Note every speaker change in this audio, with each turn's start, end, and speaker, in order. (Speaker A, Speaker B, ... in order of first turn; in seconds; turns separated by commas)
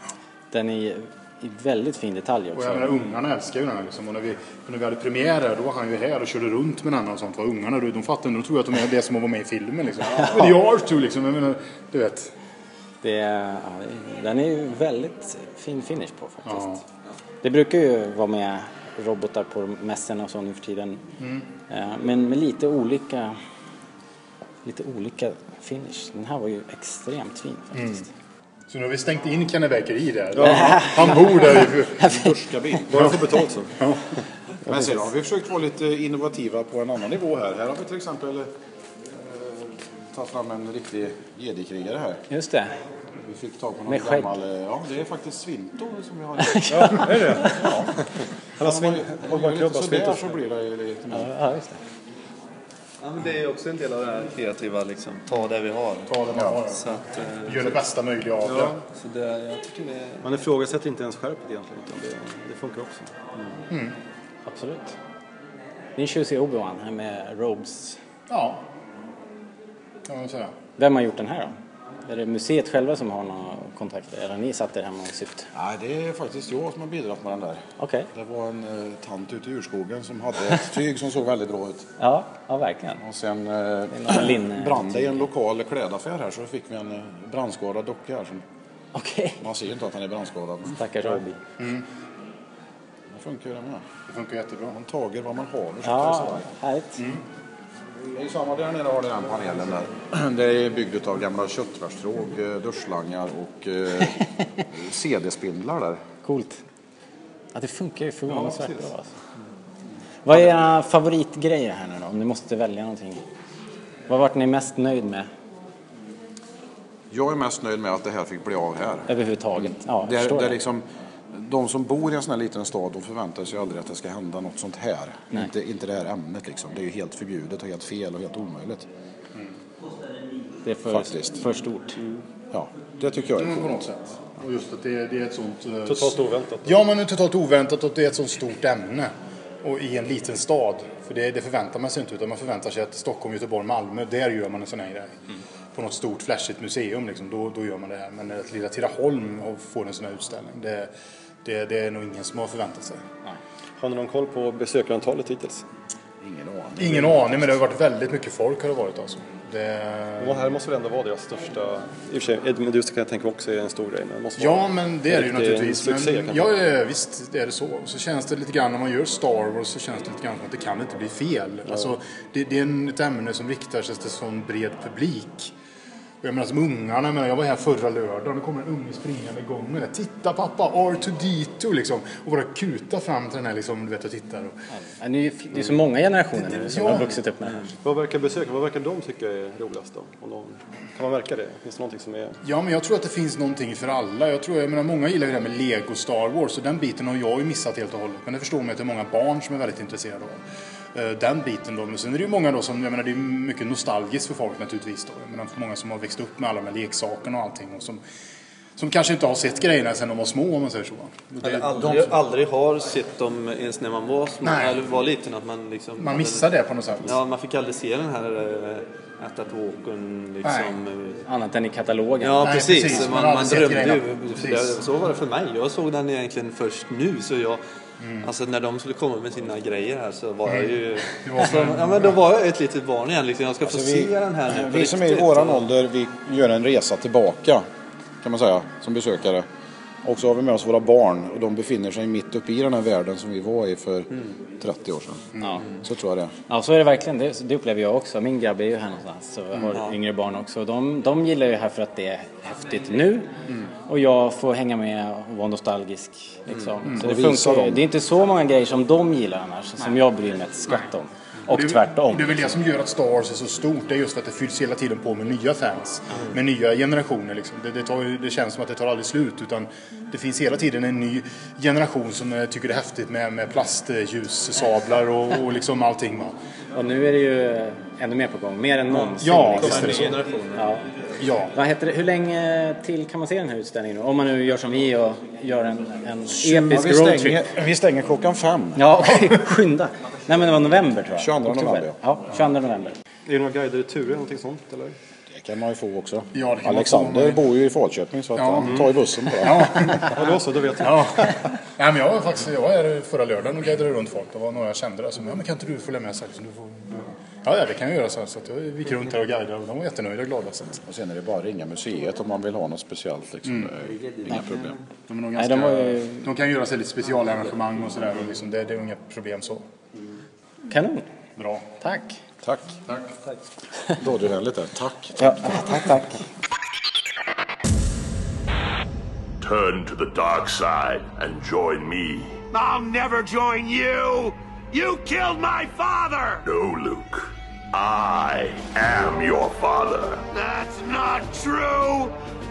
Speaker A: 0.5-3.0, Speaker B: 2.5-12.3, Speaker A: 10.0-10.6, Speaker A: 13.0-16.8, Speaker B: 16.5-16.8, Speaker A: 17.4-21.0, Speaker B: 21.2-21.5, Speaker A: 21.7-23.4, Speaker A: 24.6-28.1, Speaker B: 27.7-28.1, Speaker B: 28.7-32.1, Speaker C: 30.3-31.1, Speaker A: 30.4-32.4, Speaker D: 32.0-33.1, Speaker C: 32.9-33.7, Speaker B: 33.8-34.0, Speaker D: 34.6-38.5, Speaker A: 34.7-34.9, Speaker D: 39.1-42.2, Speaker A: 42.3-42.7, Speaker D: 43.2-47.9, Speaker A: 43.9-44.3, Speaker A: 46.4-47.7, Speaker C: 46.7-47.7, Speaker C: 48.6-50.4, Speaker D: 48.6-51.3, Speaker A: 51.1-51.8, Speaker E: 53.0-57.8, Speaker B: 56.1-56.9, Speaker B: 57.4-58.8, Speaker E: 58.5-60.3, Speaker C: 60.2-63.4, Speaker B: 63.7-64.0, Speaker A: 64.5-65.0, Speaker A: 66.0-68.0, Speaker B: 68.3-68.6, Speaker B: 70.1-70.5, Speaker A: 70.8-75.5, Speaker D: 75.5-81.9, Speaker A: 77.8-78.1, Speaker A: 82.0-83.0, Speaker D: 83.0-88.4, Speaker A: 83.9-85.3, Speaker A: 88.9-89.4, Speaker D: 89.4-90.8, Speaker A: 90.7-91.4, Speaker B: 91.6-91.8, Speaker D: 93.1-93.8, Speaker B: 94.1-94.8, Speaker D: 94.7-96.5, Speaker A: 95.8-97.0, Speaker B: 97.0-97.2, Speaker D: 98.1-106.0, Speaker A: 106.2-106.6, Speaker A: 107.5-109.1, Speaker A: 110.2-113.2, Speaker A: 114.1-115.3, Speaker D: 117.1-128.9, Speaker A: 119.1-120.6, Speaker A: 130.6-132.0, Speaker D: 130.9-131.4, Speaker D: 132.5-133.8, Speaker B: 133.4-139.1, Speaker C: 135.8-136.8, Speaker B: 139.6-145.2, Speaker B: 145.7-150.9, Speaker B: 151.4-153.0, Speaker C: 153.8-155.7, Speaker D: 156.2-157.3, Speaker B: 156.8-160.5, Speaker C: 160.2-166.6, Speaker B: 164.4-175.5, Speaker C: 171.7-171.9, Speaker B: 176.2-184.5, Speaker A: 184.7-187.7, Speaker B: 186.3-187.2, Speaker C: 187.8-192.4, Speaker B: 192.4-200.4, Speaker B: 200.9-208.0, Speaker B: 208.8-212.2, Speaker E: 211.4-216.5, Speaker B: 214.4-214.8, Speaker B: 216.0-217.1, Speaker E: 217.0-221.2, Speaker B: 220.4-220.8, Speaker A: 221.2-223.1, Speaker E: 222.2-227.6, Speaker B: 222.4-224.8, Speaker B: 228.0-228.3, Speaker E: 228.2-235.7, Speaker B: 230.4-232.2, Speaker D: 233.6-237.7, Speaker D: 238.2-239.4, Speaker D: 240.0-246.3, Speaker B: 245.3-245.6, Speaker A: 246.5-253.3, Speaker B: 249.5-249.8, Speaker A: 253.9-262.5, Speaker E: 256.5-256.9, Speaker D: 257.0-257.8, Speaker B: 261.5-276.3, Speaker A: 276.7-280.9, Speaker B: 279.2-280.2, Speaker C: 279.7-280.1, Speaker E: 279.8-280.5, Speaker B: 281.2-281.5, Speaker A: 281.5-287.5, Speaker D: 286.4-288.9, Speaker A: 288.7-292.9, Speaker D: 291.1-292.0, Speaker C: 293.2-295.0, Speaker D: 295.3-300.0, Speaker B: 296.3-297.4, Speaker B: 298.4-298.9, Speaker C: 298.6-298.9, Speaker B: 299.4-300.3, Speaker C: 300.0-301.4, Speaker B: 300.8-310.8, Speaker D: 310.8-314.8, Speaker B: 313.4-313.7, Speaker B: 315.1-319.6, Speaker A: 315.4-316.3, Speaker A: 320.7-321.1, Speaker B: 321.4-321.6, Speaker A: 321.8-322.2, Speaker D: 322.4-322.7, Speaker D: 324.0-325.3, Speaker A: 325.2-326.2, Speaker F: 329.4-332.4, Speaker G: 332.5-336.4, Speaker F: 336.4-340.2, Speaker G: 340.3-342.1